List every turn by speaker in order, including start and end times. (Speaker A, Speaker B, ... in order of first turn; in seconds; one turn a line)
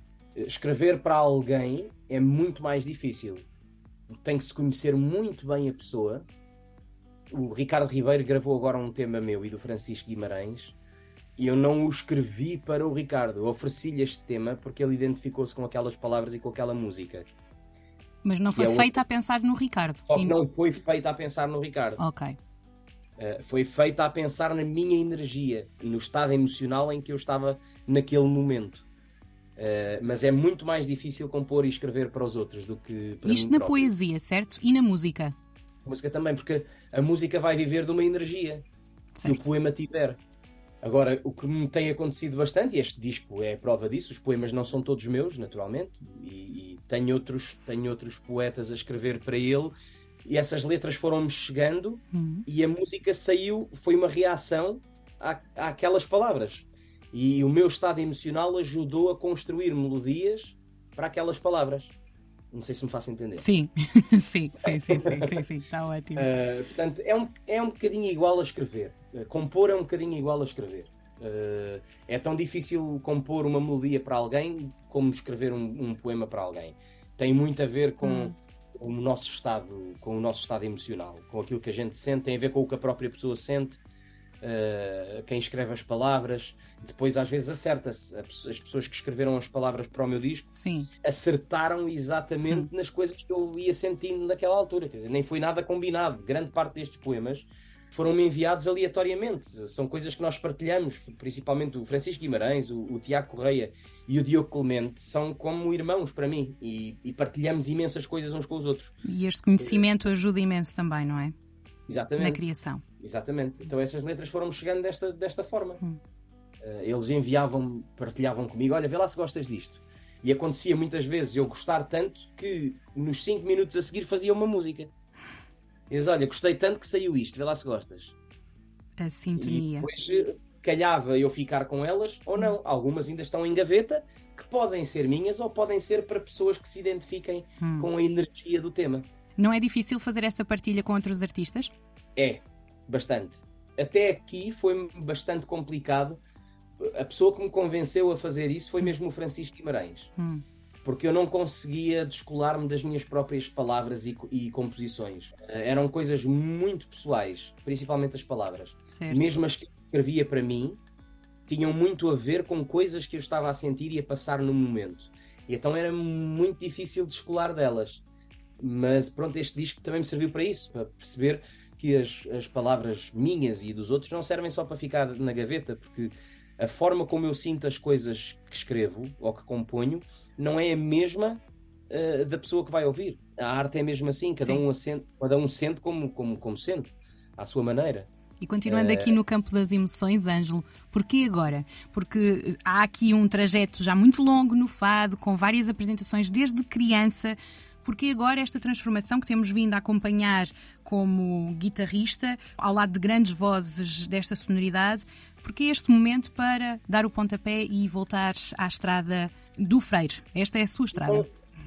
Speaker A: 0.4-3.5
Speaker A: 4.1-6.3
Speaker A: 7.3-10.8
Speaker A: 11.4-17.3
Speaker B: 18.2-20.4
Speaker A: 18.6-19.0
Speaker A: 20.1-22.0
Speaker B: 22.0-22.4
Speaker A: 23.2-28.9
Speaker A: 29.6-33.9
Speaker B: 33.2-35.4
Speaker A: 35.9-38.6
Speaker B: 39.2-39.5
Speaker A: 39.2-40.2
Speaker A: 40.8-49.7
Speaker A: 50.2-61.9
Speaker B: 52.1-52.5
Speaker A: 62.5-63.5
Speaker B: 63.4-66.3
Speaker A: 64.6-65.4
Speaker A: 66.2-83.8
Speaker B: 78.0-78.3
Speaker A: 84.4-109.0
Speaker B: 90.5-90.9
Speaker B: 109.0-111.3
Speaker A: 109.6-109.8
Speaker A: 111.9-112.4
Speaker B: 112.2-112.8
Speaker A: 113.0-115.8
Speaker A: 116.6-124.9
Speaker A: 125.9-128.2
Speaker B: 129.0-129.9
Speaker A: 129.4-139.1
Speaker B: 137.6-137.9
Speaker B: 139.4-141.7
Speaker A: 142.2-146.2
Speaker A: 146.8-150.1
Speaker B: 150.2-150.4
Speaker A: 150.8-160.8
Speaker B: 158.9-159.4
Speaker A: 161.5-168.0
Speaker A: 168.6-188.1
Speaker B: 188.4-211.3
Speaker A: 188.7-189.2
Speaker A: 210.9-211.3